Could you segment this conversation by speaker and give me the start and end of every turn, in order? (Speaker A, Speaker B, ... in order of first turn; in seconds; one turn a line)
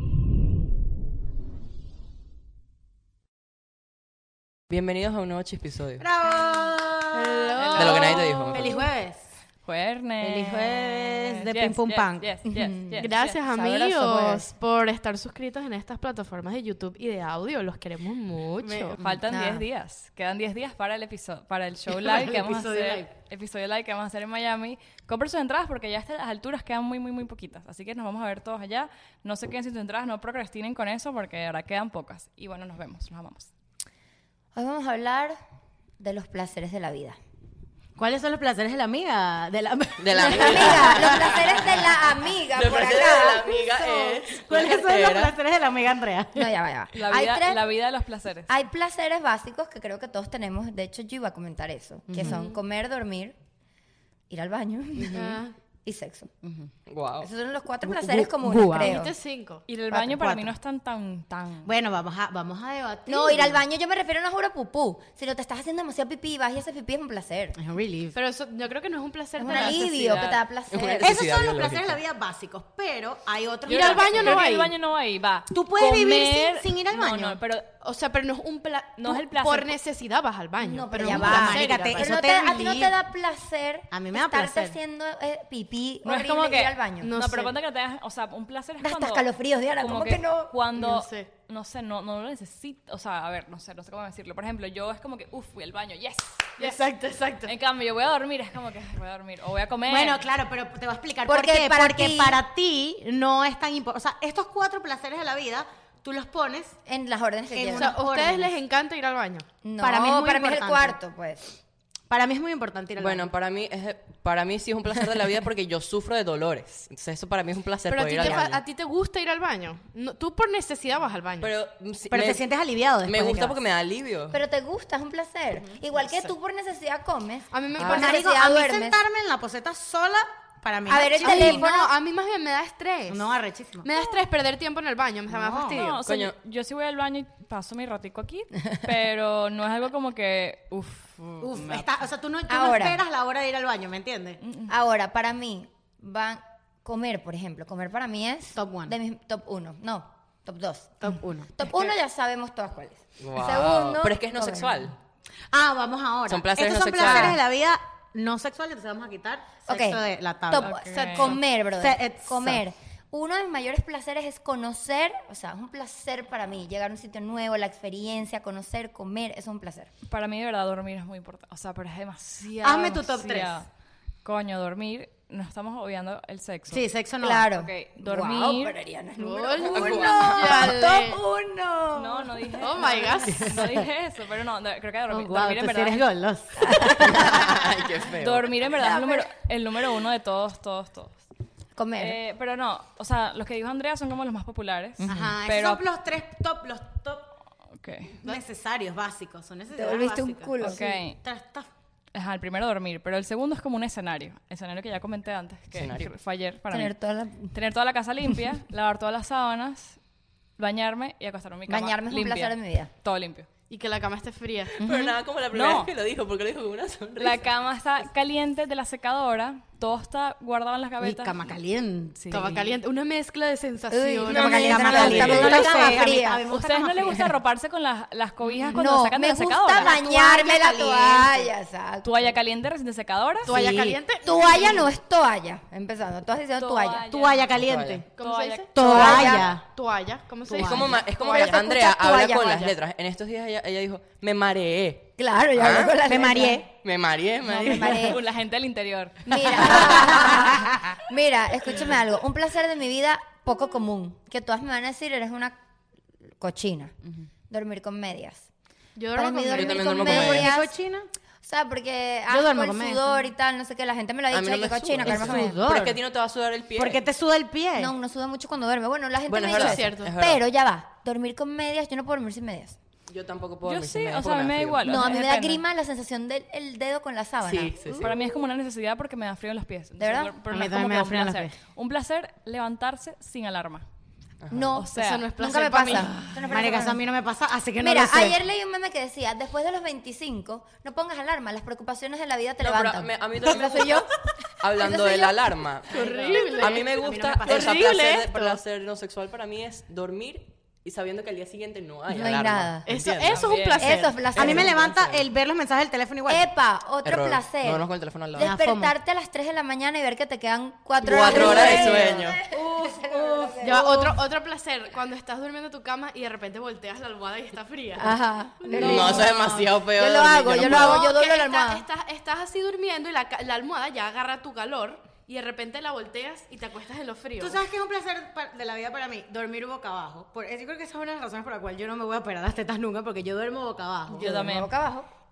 Speaker A: 4.7-6.1
Speaker B: 6.0-9.2
Speaker C: 6.3-8.9
Speaker A: 7.7-8.8
Speaker D: 9.7-13.4
Speaker B: 10.2-12.3
Speaker E: 12.5-14.5
Speaker C: 13.0-19.0
Speaker B: 18.6-19.2
Speaker D: 19.0-33.5
Speaker E: 19.3-19.6
Speaker B: 21.9-23.1
Speaker E: 34.5-35.4
Speaker E: 36.0-37.2
Speaker B: 38.0-41.6
Speaker A: 40.0-45.4
Speaker E: 40.1-43.5
Speaker B: 43.0-46.5
Speaker E: 46.4-47.7
Speaker D: 46.9-48.5
Speaker E: 48.5-53.4
Speaker B: 52.1-52.4
Speaker C: 52.2-52.6
Speaker E: 54.3-56.3
Speaker B: 55.0-55.3
Speaker C: 55.1-55.5
Speaker B: 56.4-56.7
Speaker A: 56.9-57.3
Speaker E: 57.2-59.1
Speaker B: 57.9-59.0
Speaker C: 58.8-59.6
Speaker D: 59.7-61.7
Speaker B: 59.9-60.5
Speaker B: 61.6-63.6
Speaker E: 63.1-67.6
Speaker B: 67.6-68.2
Speaker C: 68.2-70.3
Speaker E: 69.4-71.2
Speaker D: 69.5-70.4
Speaker A: 70.7-72.0
Speaker B: 71.0-74.4
Speaker C: 73.7-74.7
Speaker D: 73.7-77.7
Speaker B: 75.5-77.4
Speaker C: 77.8-82.2
Speaker D: 79.0-79.8
Speaker E: 80.6-87.1
Speaker B: 81.0-83.0
Speaker B: 83.9-84.8
Speaker D: 86.0-89.3
Speaker C: 87.0-87.5
Speaker E: 88.8-90.5
Speaker D: 89.8-96.8
Speaker C: 90.8-91.3
Speaker C: 96.6-97.5
Speaker D: 97.5-100.3
Speaker B: 99.9-106.8
Speaker E: 101.3-102.4
Speaker E: 106.9-108.0
Speaker B: 107.5-108.5
Speaker C: 107.7-109.5
Speaker E: 109.6-111.5
Speaker B: 109.8-111.0
Speaker B: 112.1-113.3
Speaker A: 113.0-118.6
Speaker C: 117.9-121.5
Speaker A: 121.4-122.5
Speaker B: 122.1-123.6
Speaker A: 123.0-124.4
Speaker E: 124.3-129.0
Speaker C: 127.5-128.3
Speaker B: 127.8-131.7
Speaker E: 130.9-131.9
Speaker C: 131.2-136.0
Speaker B: 133.1-133.9
Speaker B: 135.3-135.9
Speaker D: 135.7-141.5
Speaker A: 136.0-136.3
Speaker B: 141.4-144.4
Speaker E: 142.5-143.0
Speaker D: 144.4-144.7
Speaker E: 144.7-154.9
Speaker B: 148.6-148.9
Speaker B: 151.0-151.5
Speaker A: 153.2-155.0
Speaker B: 155.5-160.7
Speaker A: 156.3-157.4
Speaker E: 159.7-169.9
Speaker D: 160.6-161.4
Speaker C: 160.9-161.4
Speaker B: 161.8-162.6
Speaker D: 170.1-173.7
Speaker B: 172.6-173.6
Speaker D: 174.2-176.8
Speaker B: 176.7-177.5
Speaker E: 177.2-182.2
Speaker D: 177.5-178.7
Speaker C: 179.2-181.2
Speaker A: 179.7-180.7
Speaker B: 179.8-181.0
Speaker D: 181.9-186.0
Speaker C: 182.6-183.5
Speaker B: 183.3-183.9
Speaker B: 185.1-187.6
Speaker E: 186.7-187.0
Speaker A: 187.0-188.7
Speaker D: 188.2-191.3
Speaker E: 188.8-189.3
Speaker E: 191.8-192.2
Speaker D: 192.0-195.8
Speaker E: 195.0-195.3
Speaker B: 195.1-197.3
Speaker D: 197.8-198.2
Speaker B: 198.2-201.7
Speaker E: 199.7-200.8
Speaker D: 200.6-201.2
Speaker D: 202.1-206.9
Speaker A: 205.7-206.1
Speaker E: 206.7-207.5
Speaker D: 207.5-210.0
Speaker D: 210.6-213.5
Speaker E: 211.7-212.9
Speaker C: 213.7-214.8
Speaker A: 214.8-217.5
Speaker E: 214.8-215.2
Speaker D: 215.5-215.9
Speaker D: 217.2-221.4
Speaker B: 221.0-222.7
Speaker D: 222.2-222.5
Speaker C: 222.3-225.6
Speaker E: 223.9-226.5
Speaker B: 224.2-227.3
Speaker D: 224.9-229.9
Speaker A: 225.1-225.6
Speaker E: 228.7-232.4
Speaker B: 229.8-231.5
Speaker D: 232.0-233.6
Speaker C: 233.4-234.9
Speaker B: 233.5-234.0
Speaker E: 234.2-237.1
Speaker D: 236.6-237.5
Speaker B: 237.1-238.1
Speaker A: 237.5-238.1
Speaker C: 238.2-241.6
Speaker D: 238.2-239.3
Speaker B: 238.7-239.6
Speaker E: 238.8-239.5
Speaker B: 240.5-241.0
Speaker A: 240.6-246.1
Speaker E: 241.2-242.7
Speaker E: 245.2-246.6
Speaker B: 246.0-246.7
Speaker A: 246.7-248.1
Speaker E: 247.5-248.2
Speaker D: 247.8-249.6
Speaker E: 249.3-255.6
Speaker B: 249.8-250.7
Speaker E: 256.4-256.9
Speaker E: 257.5-258.5
Speaker C: 259.0-260.2
Speaker E: 259.1-260.7
Speaker A: 259.5-260.5
Speaker B: 260.1-261.1
Speaker E: 261.4-265.6
Speaker B: 262.3-263.2
Speaker A: 264.3-267.0
Speaker B: 265.0-266.0
Speaker B: 266.8-267.9
Speaker E: 267.8-272.8
Speaker A: 269.3-270.4
Speaker C: 269.5-270.1
Speaker A: 273.1-275.0
Speaker D: 273.6-275.6
Speaker E: 274.8-278.1
Speaker A: 277.4-278.1
Speaker D: 278.0-283.9
Speaker E: 280.0-280.3
Speaker B: 280.5-281.5
Speaker A: 284.4-284.8
Speaker E: 284.5-287.0
Speaker D: 284.7-285.3
Speaker C: 284.9-286.1
Speaker B: 286.5-288.4
Speaker E: 287.8-294.1
Speaker A: 292.6-294.1
Speaker A: 294.6-303.5
Speaker E: 294.8-295.3
Speaker D: 295.9-296.4
Speaker C: 295.9-298.6
Speaker B: 296.0-298.0
Speaker E: 302.1-302.9
Speaker C: 302.9-304.2
Speaker D: 303.3-304.0
Speaker E: 303.8-304.8
Speaker A: 304.3-305.3
Speaker B: 304.4-306.5
Speaker E: 306.3-313.9
Speaker A: 307.0-308.6
Speaker B: 308.4-308.9
Speaker A: 311.0-312.4
Speaker B: 311.1-314.1
Speaker C: 313.6-319.3
Speaker E: 318.0-321.8
Speaker A: 318.7-321.1
Speaker B: 318.7-319.7
Speaker C: 320.6-327.6
Speaker B: 327.4-334.3
Speaker E: 334.1-335.1
Speaker D: 334.1-334.7